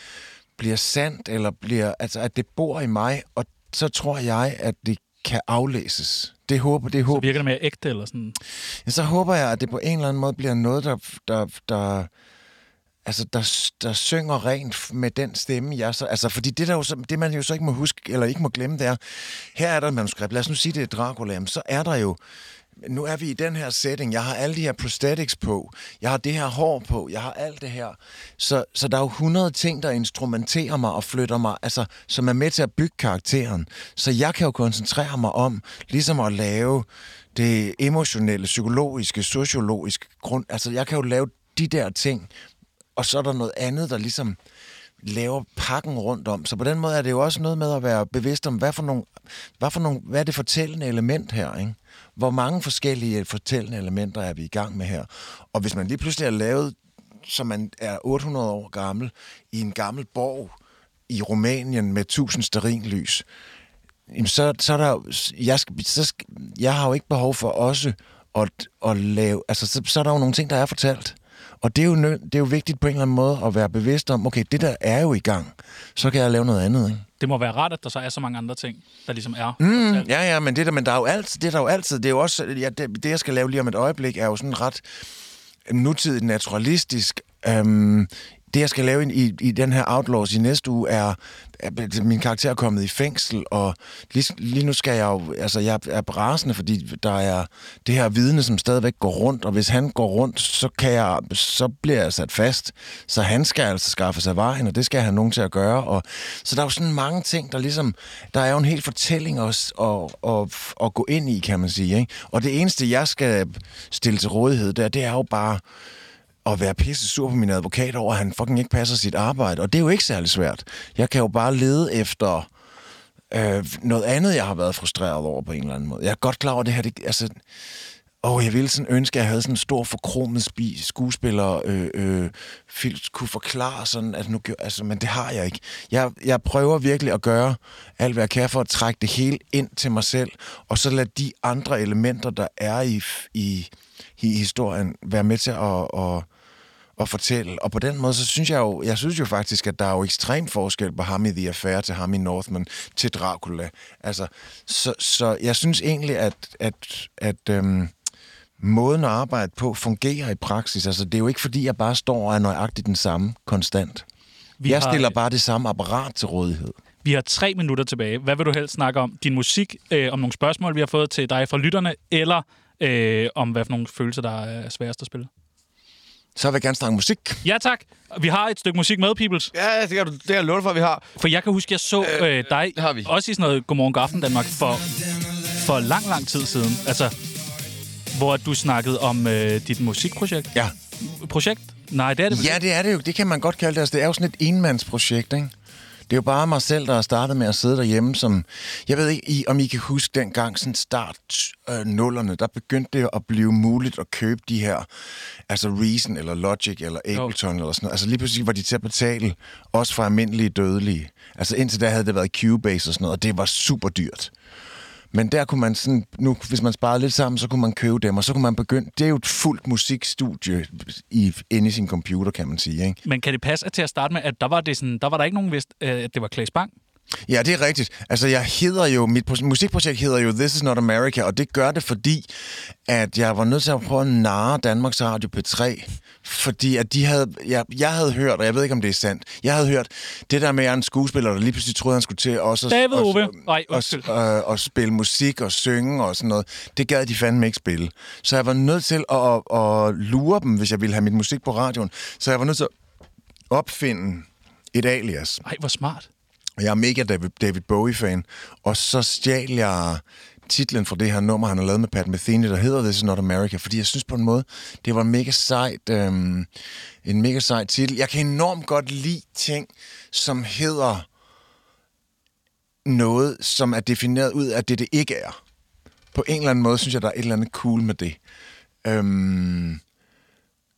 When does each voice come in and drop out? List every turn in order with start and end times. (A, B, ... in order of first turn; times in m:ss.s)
0:00.6-0:07.3 A
0:07.1-0:08.4 B
0:08.8-0:12.1 A
0:13.1-0:22.2 A
0:22.8-0:42.3 A
0:43.0-0:44.4 A
0:45.0-0:49.1 A
0:49.6-1:00.5 A
1:01.1-1:03.2 A
1:04.1-1:17.1 A
1:17.2-1:20.0 B
1:19.6-1:24.8 A
1:25.7-1:55.6 A
1:56.4-2:02.5 A
2:03.3-2:07.4 A
2:08.2-2:26.3 A
2:27.0-2:37.9 A
2:38.6-2:44.0 A
2:44.6-2:45.2 B
2:44.7-2:46.8 A
2:47.0-2:55.3 B
2:56.4-2:57.4 A
2:57.4-2:59.5 B
2:59.5-3:01.1 C
3:01.2-3:07.1 B
3:02.0-3:03.1 C
3:08.1-3:12.6 B
3:12.3-3:15.5 A
3:16.1-3:24.9 A
3:25.5-3:34.3 A
3:35.1-3:43.0 A
3:43.0-3:46.7 B
3:47.3-3:52.3 A
3:52.9-4:12.7 A
4:02.7-4:04.2 B
4:13.5-4:15.4 A
4:15.4-4:16.1 B
4:16.6-4:26.5 A
4:27.0-4:31.1 A
4:32.8-4:35.4 A
4:36.1-4:38.2 A
4:38.8-4:39.8 A